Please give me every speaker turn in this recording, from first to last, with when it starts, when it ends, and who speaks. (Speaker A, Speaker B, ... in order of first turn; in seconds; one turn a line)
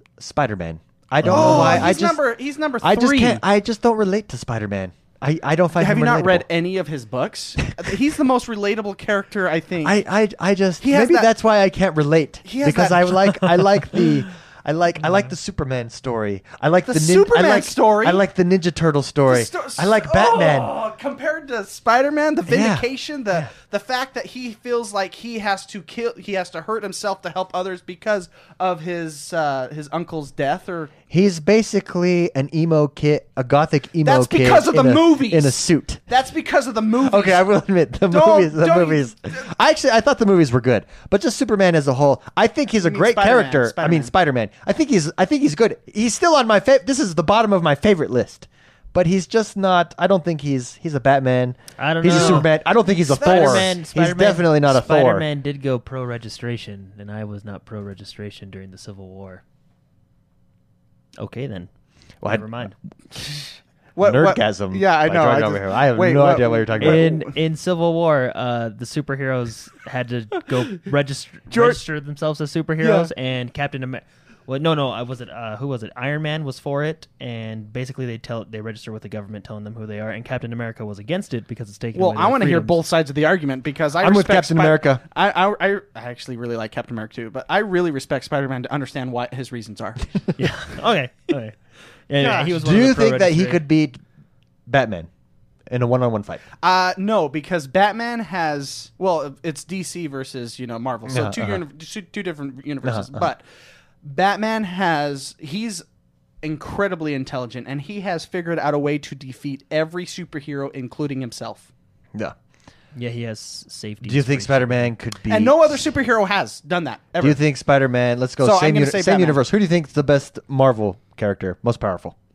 Speaker A: 0.2-2.2
Speaker B: 1.2-1.9
Speaker C: 1.2-3.4
Speaker A: 2.8-6.5
Speaker C: 5.8-10.0
Speaker A: 9.8-20.7
Speaker C: 10.8-11.3
Speaker C: 12.4-13.7
Speaker C: 16.9-18.2
Speaker C: 19.3-30.9
Speaker A: 22.5-22.9
Speaker A: 31.1-36.0
Speaker C: 34.0-37.5
Speaker A: 37.0-55.3
Speaker C: 38.1-39.1
Speaker C: 42.8-44.1
Speaker B: 51.8-52.5
Speaker C: 52.1-52.5
Speaker B: 53.1-59.4
Speaker C: 53.1-53.7
Speaker B: 61.2-61.7
Speaker A: 62.2-62.7
Speaker B: 62.3-62.8
Speaker C: 64.0-67.3
Speaker A: 64.0-67.1
Speaker B: 66.8-82.8
Speaker C: 71.5-71.8
Speaker C: 72.8-73.1
Speaker C: 82.0-90.2
Speaker A: 84.0-85.0
Speaker B: 90.4-91.6
Speaker B: 92.1-93.6
Speaker C: 92.2-92.5
Speaker A: 92.5-94.0
Speaker A: 94.7-95.1
Speaker A: 95.7-96.4
Speaker C: 96.6-103.4
Speaker A: 101.1-101.6
Speaker A: 102.8-103.3
Speaker C: 104.0-105.8
Speaker C: 106.4-111.7
Speaker B: 113.0-114.9
Speaker A: 114.0-115.8
Speaker C: 115.3-117.4
Speaker A: 117.2-122.2
Speaker C: 118.4-119.4